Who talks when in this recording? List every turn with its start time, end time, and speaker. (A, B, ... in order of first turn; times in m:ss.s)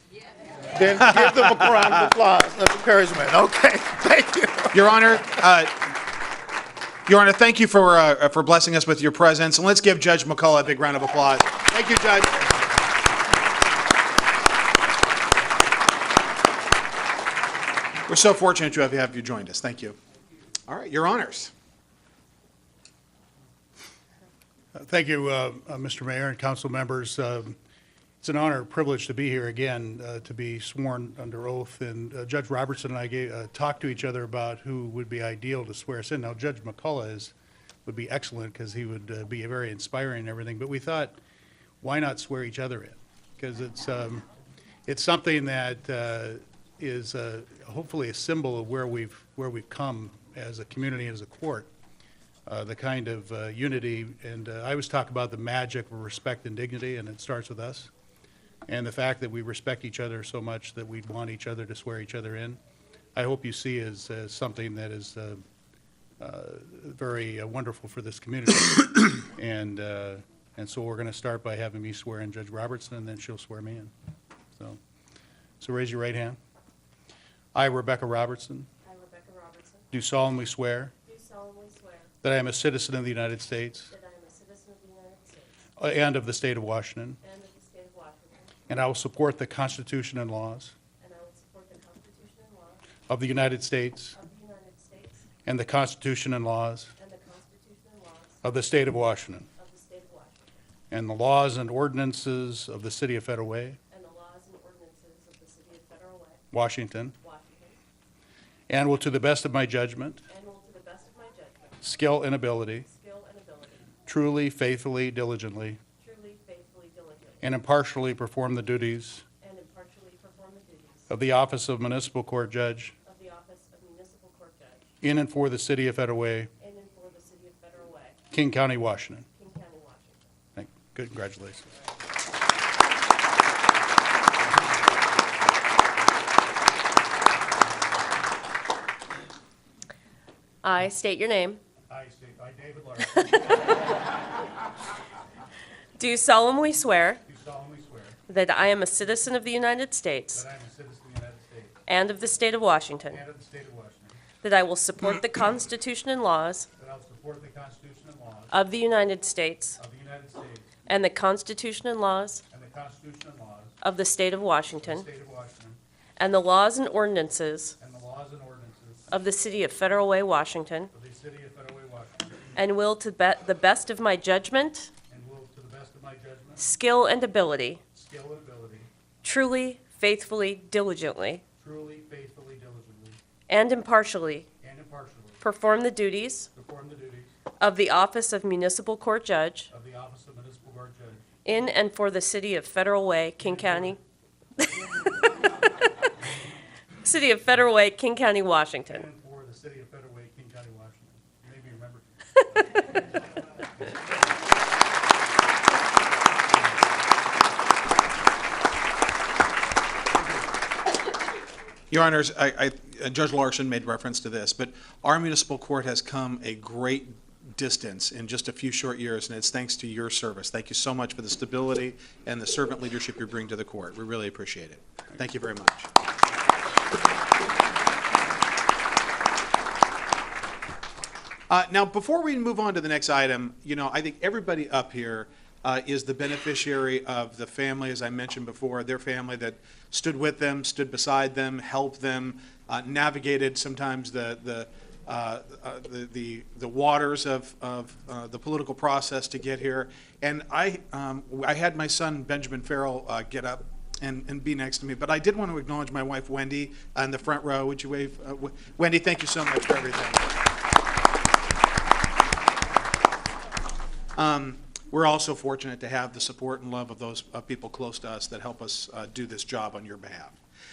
0:00.7-0:05.3 A
0:04.7-0:05.7 B
0:07.1-0:12.6 B
0:18.1-0:20.0 B
0:20.7-0:21.5 B
0:24.7-0:27.6 C
0:28.2-0:37.3 C
0:37.9-0:41.2 C
0:41.8-0:44.2 C
0:44.9-0:51.7 C
0:52.5-0:57.9 C
0:58.7-1:02.6 C
1:03.2-1:05.4 C
1:06.2-1:13.9 C
1:15.6-1:16.4 C
1:17.6-1:18.7 C
1:18.8-1:19.9 D
1:19.9-1:20.9 C
1:21.0-1:22.1 D
1:22.2-1:23.9 C
1:23.9-1:25.6 D
1:25.8-1:27.2 C
1:27.2-1:28.6 D
1:28.7-1:30.7 C
1:31.0-1:32.9 D
1:33.1-1:34.2 C
1:34.1-1:35.3 D
1:35.4-1:36.9 C
1:37.0-1:38.4 D
1:38.4-1:39.5 C
1:39.6-1:40.6 D
1:40.9-1:43.8 C
1:43.9-1:46.4 D
1:46.5-1:47.2 C
1:47.2-1:47.8 D
1:48.7-1:50.2 C
1:50.3-1:51.8 D
1:51.8-1:52.9 C
1:52.9-1:53.9 D
1:54.1-1:55.8 C
1:56.0-1:57.5 D
1:57.4-1:59.2 C
1:59.4-2:01.1 D
2:01.1-2:02.9 C
2:03.0-2:04.8 D
2:05.0-2:06.5 C
2:06.6-2:08.2 D
2:08.3-2:09.3 C
2:09.3-2:10.3 D
2:10.6-2:11.7 C
2:20.6-2:21.6 D
2:21.9-2:24.0 C
2:26.0-2:27.2 D
2:27.3-2:28.2 C
2:28.3-2:30.4 D
2:30.3-2:31.8 C
2:31.9-2:33.2 D
2:33.1-2:34.2 C
2:34.4-2:36.7 D
2:36.8-2:38.5 C
2:38.5-2:39.8 D
2:39.8-2:40.8 C
2:40.9-2:42.4 D
2:42.5-2:43.7 C
2:43.8-2:45.1 D
2:44.8-2:45.8 C
2:46.2-2:47.8 D
2:47.8-2:49.2 C
2:49.1-2:50.9 D
2:50.9-2:52.6 C
2:52.6-2:54.9 D
2:55.1-2:56.6 C
2:56.6-2:57.8 D
2:57.9-2:58.9 C
2:59.2-3:01.4 D
3:01.6-3:03.2 C
3:03.5-3:04.5 D
3:04.6-3:05.4 C
3:05.4-3:06.5 D
3:06.6-3:07.3 C
3:07.6-3:09.7 D
3:09.7-3:11.3 C
3:11.4-3:14.0 D
3:13.4-3:14.0 C
3:17.0-3:19.0 D
3:18.9-3:23.0 C
3:23.8-3:24.2 C
3:26.5-3:26.8 C
3:30.2-3:30.5 C
3:31.9-3:45.9 B
3:51.5-4:20.4 B
4:24.2-4:30.4 B